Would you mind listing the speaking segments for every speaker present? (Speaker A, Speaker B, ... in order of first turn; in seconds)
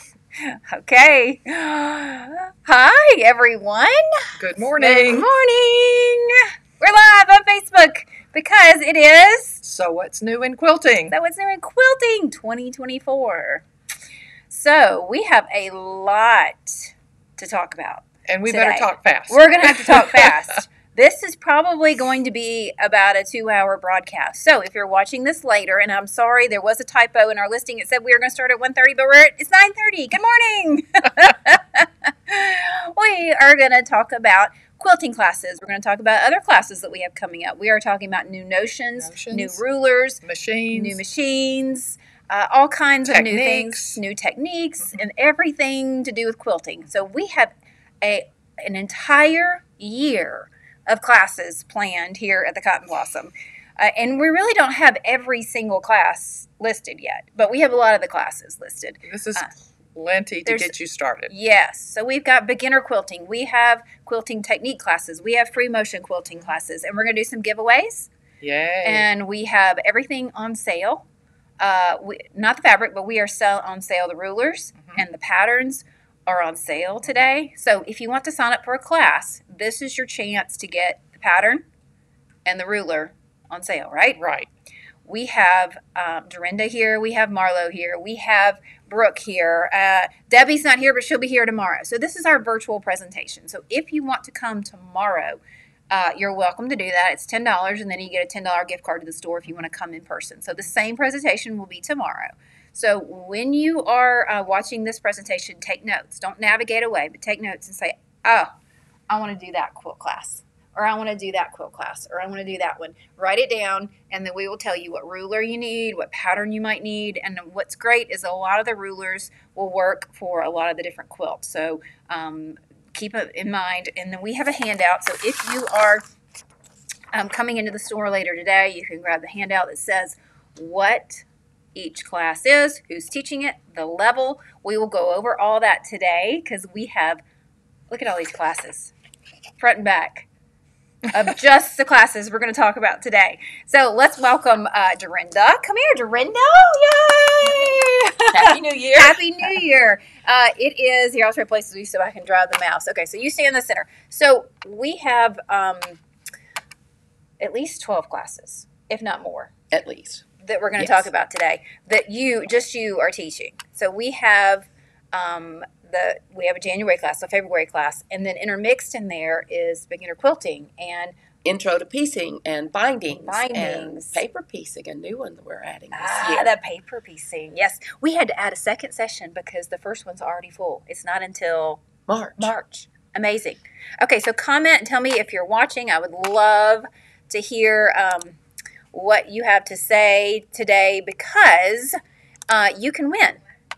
Speaker A: 0.4-4.3, 4.8-9.6, 11.1-13.6, 14.5-59.5, 60.5-60.7, 61.3-68.1, 68.8-71.0, 71.6-81.6, 82.4-84.2, 85.0-95.4, 95.9-108.5, 109.1-126.0, 127.1-131.2, 131.7-137.2, 137.9-138.9, 139.6-140.3, 141.1-156.0, 157.4-159.5, 160.4-171.1, 173.2-174.2, 175.9-181.8, 182.4-188.4, 188.9-192.0, 192.5-193.4
Speaker B: 4.3-5.3, 9.6-11.2, 18.3-20.3, 39.0-39.6, 40.2-41.0, 43.0-44.0, 59.0-61.3, 68.4-69.1, 74.8-75.0, 84.2-84.5
Speaker C: 148.3-149.2, 159.7-160.2, 160.8-161.1, 171.4-176.5, 182.1-182.5